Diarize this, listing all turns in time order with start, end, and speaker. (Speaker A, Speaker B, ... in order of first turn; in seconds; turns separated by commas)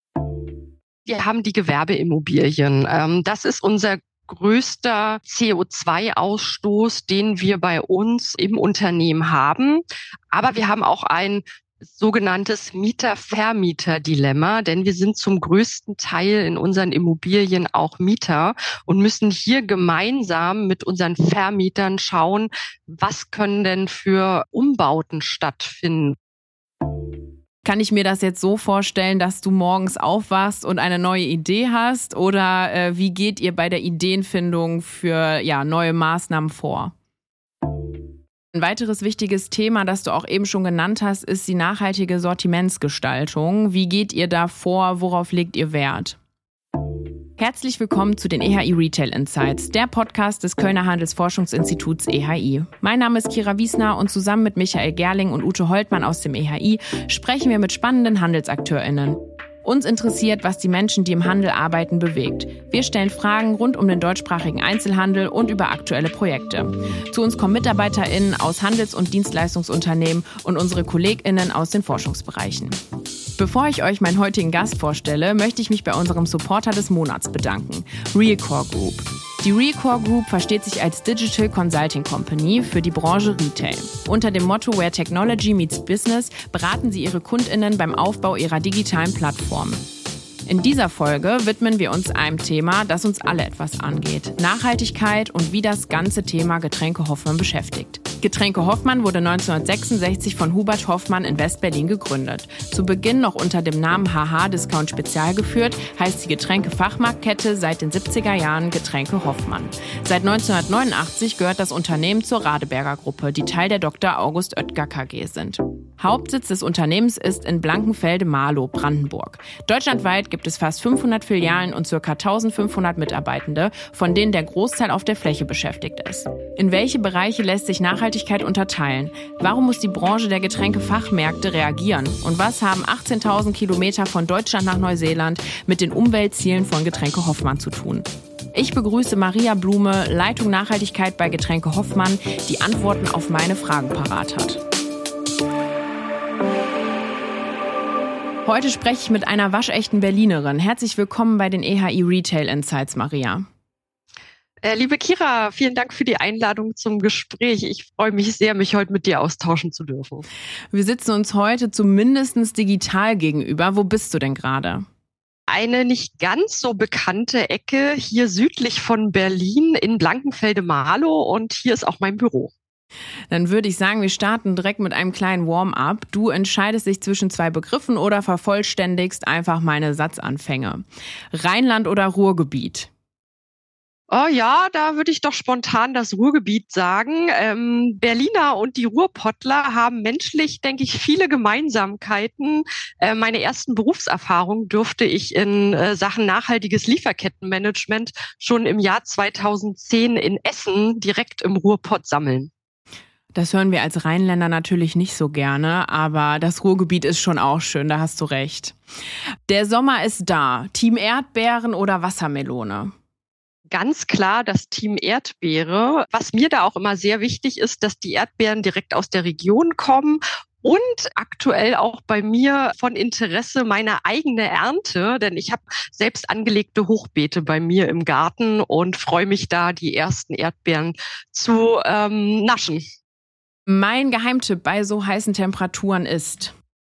Speaker A: 1.1-26.2, Speaker B: 27.6-36.9, Speaker B: 38.5-46.2, Speaker B: 47.4-72.8, Speaker B: 73.4-89.8, Speaker B: 90.5-144.6, Speaker B: 148.4-153.4, Speaker A: 154.6-160.3, Speaker B: 160.7-164.9, Speaker A: 165.5-172.5, Speaker B: 173.3-182.9, Speaker A: 184.1-202.5, Speaker B: 203.3-208.8, Speaker B: 209.5-212.9, Speaker A: 213.7-232.8, Speaker B: 233.7-236.6